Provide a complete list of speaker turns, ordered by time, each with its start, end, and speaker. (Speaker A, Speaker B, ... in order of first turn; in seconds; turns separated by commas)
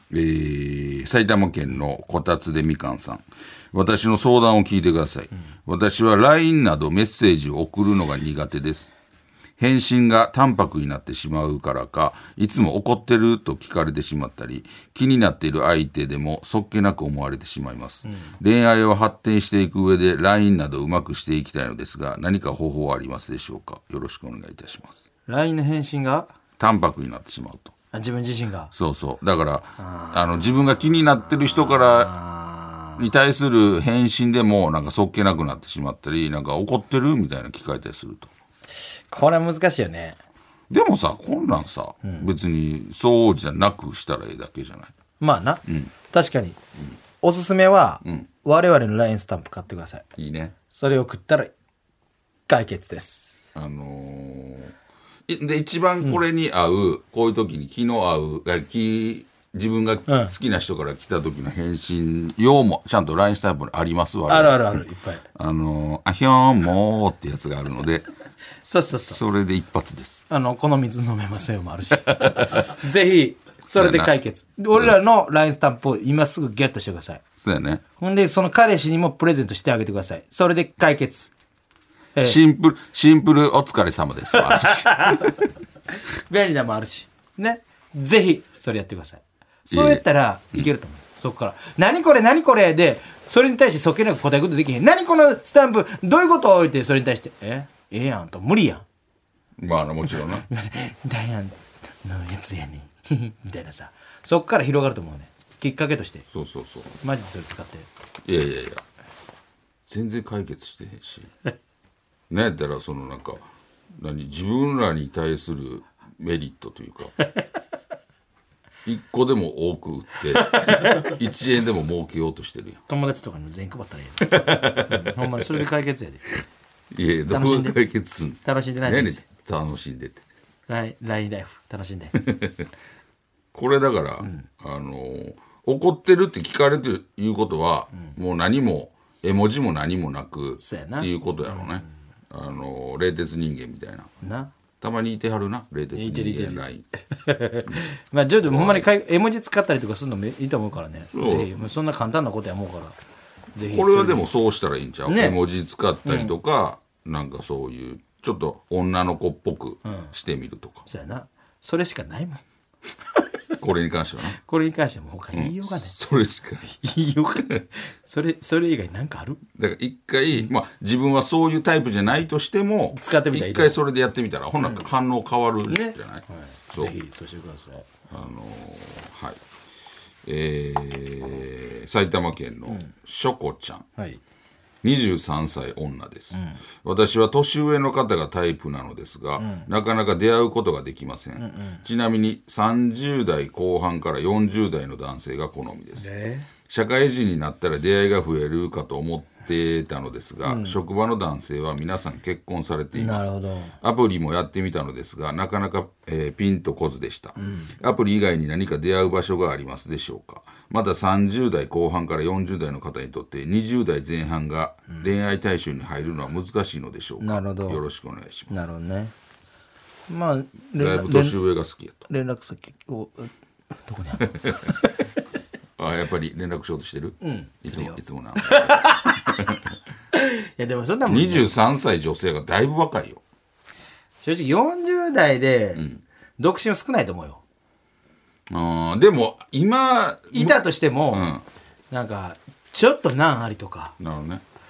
Speaker A: 0.1-8.9, Speaker A: 9.6-25.1, Speaker B: 18.1-18.3, Speaker B: 25.3-26.3, Speaker A: 26.6-27.7, Speaker B: 27.9-28.7, Speaker A: 28.7-32.1, Speaker B: 29.8-30.5, Speaker B: 31.1-33.1, Speaker A: 33.0-38.3, Speaker B: 39.1-40.2, Speaker A: 40.7-44.9, Speaker B: 45.2-46.6, Speaker A: 45.7-45.9, Speaker B: 47.2-50.0, Speaker A: 50.2-50.5, Speaker B: 50.7-51.5, Speaker B: 52.5-53.4, Speaker A: 53.5-54.8, Speaker A: 55.3-64.8, Speaker B: 60.1-60.3, Speaker B: 64.3-65.2, Speaker A: 65.3-68.1, Speaker B: 68.7-69.2, Speaker A: 69.1-70.3, Speaker B: 70.3-77.2, Speaker A: 72.0-72.7, Speaker A: 73.8-74.1, Speaker A: 77.4-77.8, Speaker B: 78.0-81.3, Speaker A: 82.2-85.3, Speaker B: 84.3-85.4, Speaker B: 86.1-98.8, Speaker A: 89.7-90.0, Speaker A: 99.6-100.5, Speaker B: 100.0-106.3, Speaker A: 106.3-106.9, Speaker B: 107.0-107.9, Speaker A: 108.2-108.8, Speaker A: 109.9-111.3, Speaker A: 112.3-117.2, Speaker A: 118.8-122.8, Speaker B: 120.4-121.1, Speaker B: 122.9-126.2, Speaker A: 124.2-125.7, Speaker A: 126.9-130.2, Speaker B: 127.3-127.8, Speaker B: 128.4-129.2, Speaker B: 130.7-132.2, Speaker A: 132.2-132.7, Speaker A: 133.5-144.1, Speaker B: 134.2-134.5, Speaker B: 140.6-141.8, Speaker B: 144.2-144.5, Speaker A: 144.8-146.9, Speaker B: 145.9-153.0, Speaker A: 148.4-148.9, Speaker A: 151.1-151.5, Speaker B: 153.6-154.3, Speaker A: 153.7-160.9, Speaker B: 155.1-155.4, Speaker B: 156.1-156.3, Speaker B: 159.8-160.1, Speaker B: 160.9-162.4, Speaker A: 163.6-164.4, Speaker B: 164.3-165.9, Speaker A: 165.3-166.7, Speaker B: 166.7-169.4, Speaker A: 169.6-176.9, Speaker B: 172.9-173.8, Speaker B: 174.6-174.9, Speaker B: 175.7-177.9, Speaker A: 178.1-179.4, Speaker A: 180.2-183.9, Speaker A: 184.8-196.1, Speaker B: 186.3-186.6, Speaker B: 189.4-189.7, Speaker B: 191.4-191.8, Speaker B: 196.0-196.5, Speaker A: 196.7-218.5, Speaker B: 200.4-200.8, Speaker B: 202.9-203.8, Speaker B: 207.4-207.7, Speaker B: 217.2-217.8, Speaker B: 218.5-219.1, Speaker B: 220.1-221.4, Speaker A: 220.8-222.1, Speaker B: 222.1-223.3, Speaker B: 223.9-225.0, Speaker A: 224.3-224.7, Speaker A: 225.8-229.6, Speaker B: 227.2-229.4, Speaker B: 230.1-231.5, Speaker A: 231.1-233.2, Speaker B: 234.2-235.8, Speaker A: 235.8-236.0, Speaker B: 236.4-237.4, Speaker A: 238.5-241.4, Speaker B: 240.3-241.3, Speaker B: 241.9-244.0, Speaker A: 244.0-244.4